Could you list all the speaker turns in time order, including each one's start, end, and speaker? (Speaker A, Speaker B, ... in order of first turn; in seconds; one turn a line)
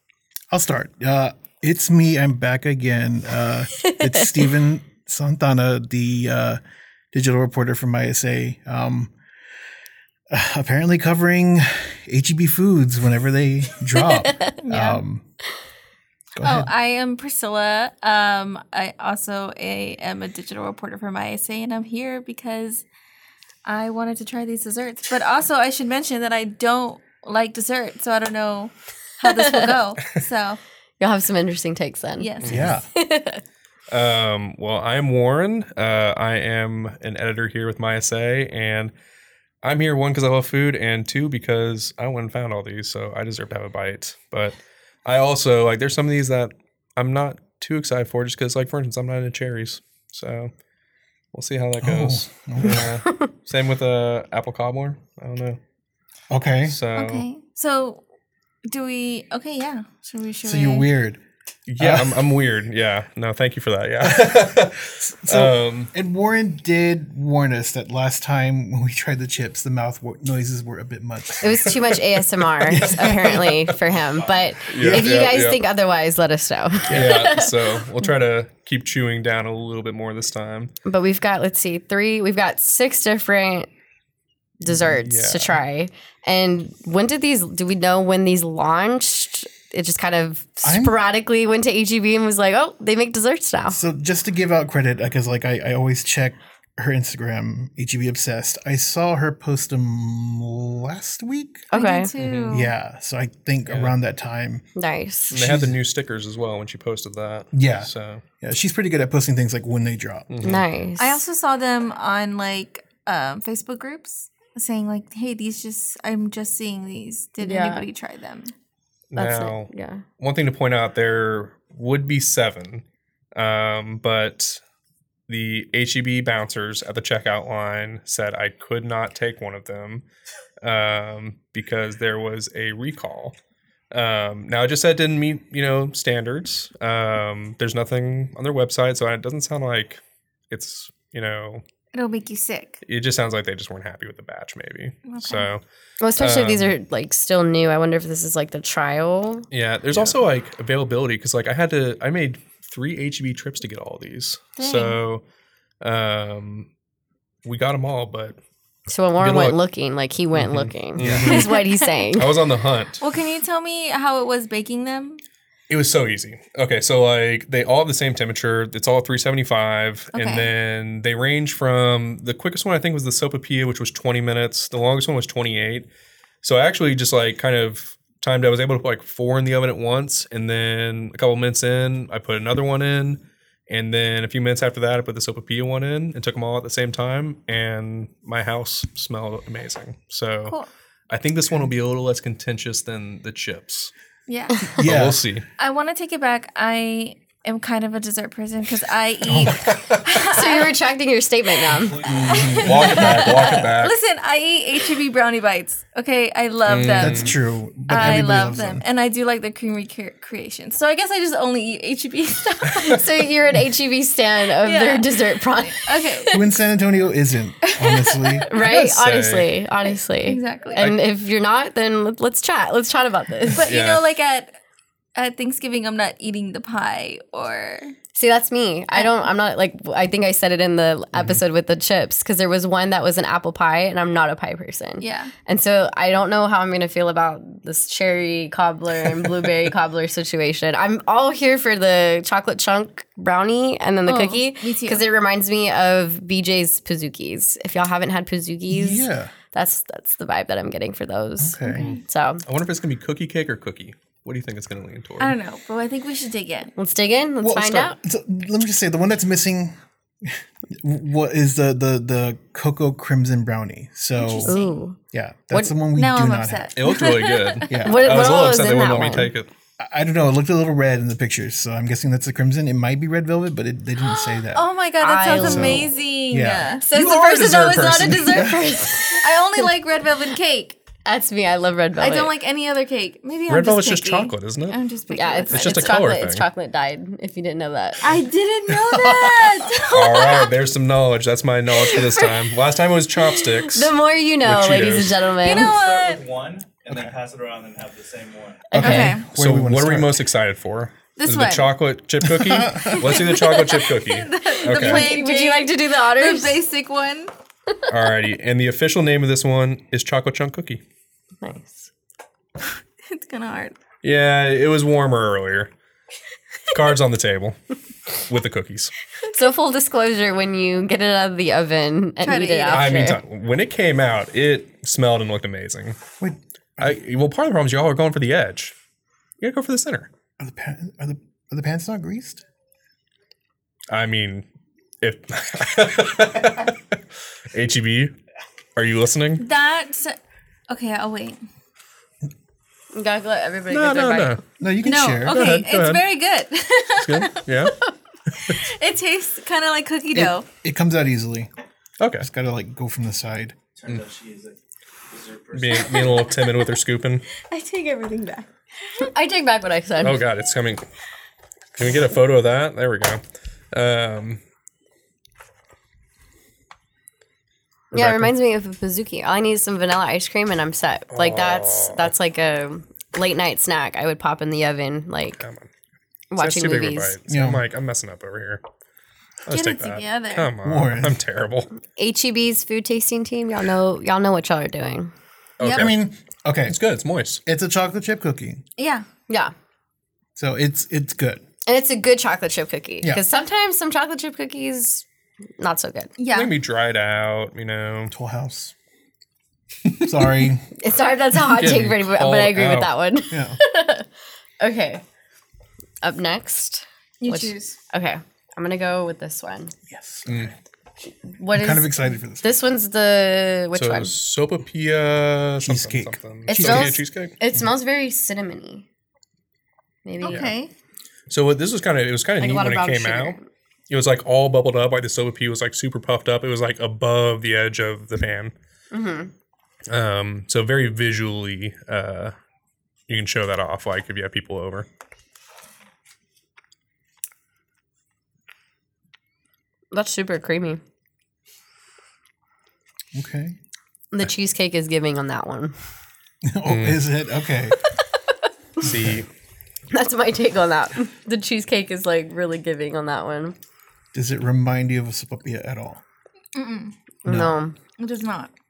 Speaker A: 0.5-6.6
Speaker B: 3.8-4.3
Speaker A: 7.1-9.1
Speaker A: 10.3-15.2
Speaker B: 14.2-14.5
Speaker C: 14.6-15.0
Speaker A: 16.4-16.7
Speaker C: 16.4-22.9
Speaker C: 23.7-30.6
Speaker B: 29.2-29.7
Speaker B: 31.0-32.3
Speaker C: 32.2-32.6
Speaker D: 32.4-32.7
Speaker A: 32.4-32.9
Speaker B: 32.9-33.4
Speaker D: 33.9-38.9
Speaker D: 39.6-50.5
Speaker D: 51.3-55.6
Speaker A: 51.8-53.0
Speaker A: 56.3-56.8
Speaker D: 56.6-57.2
Speaker C: 57.0-58.0
Speaker C: 58.6-60.9
Speaker A: 60.4-61.2
Speaker D: 61.7-65.9
Speaker A: 61.8-62.3
Speaker A: 64.0-71.8
Speaker B: 71.4-77.9
Speaker D: 71.5-72.0
Speaker A: 72.7-73.5
Speaker D: 72.7-73.7
Speaker D: 74.7-75.6
Speaker A: 74.7-75.2
Speaker D: 76.9-80.7
Speaker A: 77.0-77.2
Speaker B: 80.8-83.7
Speaker B: 84.6-93.8
Speaker D: 84.7-85.6
Speaker A: 90.6-91.0
Speaker A: 93.7-101.7
Speaker B: 101.7-102.1
Speaker C: 101.7-102.7
Speaker D: 102.2-102.6
Speaker A: 102.5-104.6
Speaker D: 103.7-103.9
Speaker B: 104.8-105.3
Speaker A: 105.3-105.8
Speaker D: 105.3-108.2
Speaker A: 107.5-110.3
Speaker D: 110.3-110.6
Speaker B: 110.4-111.2
Speaker C: 111.0-118.5
Speaker B: 117.4-117.9
Speaker D: 119.1-122.8
Speaker B: 119.2-120.0
Speaker D: 123.3-124.6
Speaker D: 125.3-130.1
Speaker D: 130.6-133.4
Speaker D: 133.9-141.6
Speaker C: 141.9-142.8
Speaker D: 142.8-145.6
Speaker C: 145.1-145.5
Speaker B: 146.0-149.5
Speaker D: 146.2-146.7
Speaker D: 149.5-155.2
Speaker C: 154.6-155.0
Speaker D: 155.8-156.7
Speaker D: 157.4-158.4
Speaker B: 158.9-162.3
Speaker D: 159.2-159.6
Speaker D: 160.3-163.0
Speaker A: 161.0-161.4
Speaker C: 161.2-162.0
Speaker C: 163.0-165.2
Speaker D: 165.7-175.9
Speaker C: 170.1-170.5
Speaker D: 176.4-190.6
Speaker D: 191.1-193.9
Speaker C: 194.3-194.7
Speaker A: 194.8-195.2
Speaker D: 194.8-195.5
Speaker C: 195.6-200.8
Speaker A: 199.2-199.6
Speaker D: 199.4-200.2
Speaker B: 200.2-202.3
Speaker C: 201.5-207.4
Speaker E: 201.7-203.1
Speaker D: 202.1-203.9
Speaker A: 202.3-203.1
Speaker B: 203.0-203.6
Speaker D: 206.7-207.4
Speaker A: 207.0-208.8
Speaker C: 207.9-213.1
Speaker B: 212.8-216.2
Speaker C: 214.6-216.4
Speaker A: 216.3-218.5
Speaker C: 217.7-218.8
Speaker B: 218.5-223.7
Speaker D: 218.6-219.5
Speaker C: 220.1-220.8
Speaker C: 223.5-224.6
Speaker D: 223.6-224.0
Speaker C: 225.2-227.9
Speaker B: 228.2-252.4
Speaker C: 228.9-229.2
Speaker C: 235.0-235.3
Speaker C: 244.1-245.0
Speaker A: 248.7-249.3
Speaker A: 251.4-251.9
Speaker C: 251.6-252.0
Speaker D: 251.8-255.4
Speaker C: 255.2-256.7
Speaker B: 256.8-257.9
Speaker A: 257.4-264.6
Speaker C: 264.1-264.8
Speaker B: 264.4-265.0
Speaker A: 265.1-266.7
Speaker B: 265.5-265.8
Speaker C: 265.9-267.8
Speaker D: 266.8-269.5
Speaker A: 267.7-268.2
Speaker B: 267.8-269.3
Speaker A: 269.8-274.6
Speaker C: 274.0-276.9
Speaker B: 275.0-275.9
Speaker A: 275.3-276.8
Speaker B: 276.8-279.7
Speaker D: 276.9-278.6
Speaker A: 278.3-278.7
Speaker C: 279.0-280.8
Speaker B: 281.1-282.3
Speaker C: 282.0-286.0
Speaker D: 283.5-284.8
Speaker B: 285.1-288.1
Speaker D: 285.5-286.5
Speaker C: 288.0-290.6
Speaker A: 288.7-289.9
Speaker D: 289.9-295.4
Speaker C: 291.8-292.3
Speaker B: 293.2-295.8
Speaker C: 295.4-296.2
Speaker E: 295.6-298.8
Speaker B: 298.7-299.1
Speaker A: 298.7-300.3
Speaker C: 298.8-299.3
Speaker D: 298.8-305.1
Speaker C: 301.2-301.8
Speaker A: 302.2-303.4
Speaker C: 302.9-307.3
Speaker B: 304.5-306.6
Speaker D: 307.9-310.8
Speaker B: 311.4-311.9
Speaker C: 312.6-313.8
Speaker D: 314.0-315.7
Speaker D: 316.7-317.6
Speaker D: 318.1-318.9
Speaker B: 319.3-323.2
Speaker C: 322.2-323.1
Speaker D: 322.7-326.0
Speaker A: 326.2-327.0
Speaker D: 326.8-328.8
Speaker D: 329.4-330.1
Speaker A: 330.4-332.4
Speaker D: 333.9-334.5
Speaker D: 335.0-338.2
Speaker D: 338.8-339.4
Speaker C: 339.4-340.2
Speaker C: 340.7-341.4
Speaker B: 342.9-344.4
Speaker D: 343.7-344.4
Speaker A: 344.6-345.6
Speaker C: 344.8-347.7
Speaker D: 345.3-346.0
Speaker D: 347.0-347.8
Speaker D: 348.3-348.6
Speaker C: 348.4-350.5
Speaker A: 350.1-351.5
Speaker D: 352.0-352.3
Speaker A: 352.2-353.6
Speaker E: 353.8-354.6
Speaker E: 355.1-356.2
Speaker D: 355.5-357.3
Speaker C: 355.8-356.8
Speaker C: 357.3-358.5
Speaker B: 359.0-360.2
Speaker D: 360.0-360.9
Speaker D: 361.8-364.4
Speaker B: 367.9-375.4
Speaker D: 367.9-368.3
Speaker D: 371.1-372.1
Speaker D: 375.4-375.7
Speaker B: 376.3-377.1
Speaker D: 376.4-378.6
Speaker A: 377.3-377.6
Speaker D: 379.4-381.7
Speaker C: 379.5-380.5
Speaker A: 380.6-381.2
Speaker B: 382.0-385.1
Speaker D: 385.6-386.0
Speaker C: 385.6-385.9
Speaker A: 385.6-386.8
Speaker D: 386.7-387.4
Speaker A: 387.4-388.6
Speaker C: 388.8-389.1
Speaker B: 389.3-389.5
Speaker A: 390.4-391.4
Speaker B: 391.7-395.1
Speaker B: 395.6-396.1
Speaker C: 396.2-396.6
Speaker D: 396.3-398.1
Speaker A: 398.1-398.7
Speaker D: 399.9-400.5
Speaker A: 400.0-400.7
Speaker B: 400.8-404.1
Speaker D: 401.5-402.9
Speaker A: 403.3-403.6
Speaker B: 404.6-405.0
Speaker B: 406.0-409.7
Speaker C: 407.2-407.8
Speaker A: 409.9-410.5
Speaker D: 410.3-410.6
Speaker B: 411.3-414.1
Speaker A: 411.5-412.5
Speaker D: 413.7-417.4
Speaker A: 415.6-417.0
Speaker B: 416.5-418.9
Speaker B: 420.1-420.5
Speaker C: 420.2-420.7
Speaker D: 420.2-420.5
Speaker D: 421.3-423.4
Speaker B: 422.4-423.5
Speaker D: 423.9-428.5
Speaker B: 428.9-429.3
Speaker D: 429.9-432.4
Speaker D: 433.1-434.9
Speaker B: 439.9-440.8
Speaker A: 443.1-443.6
Speaker B: 444.1-445.7
Speaker A: 446.4-447.8
Speaker D: 446.7-447.0
Speaker D: 448.8-449.3
Speaker A: 448.9-449.2
Speaker B: 449.9-453.6
Speaker A: 454.1-456.0
Speaker C: 456.6-456.9
Speaker B: 457.2-457.8
Speaker A: 457.3-457.6
Speaker C: 458.0-458.5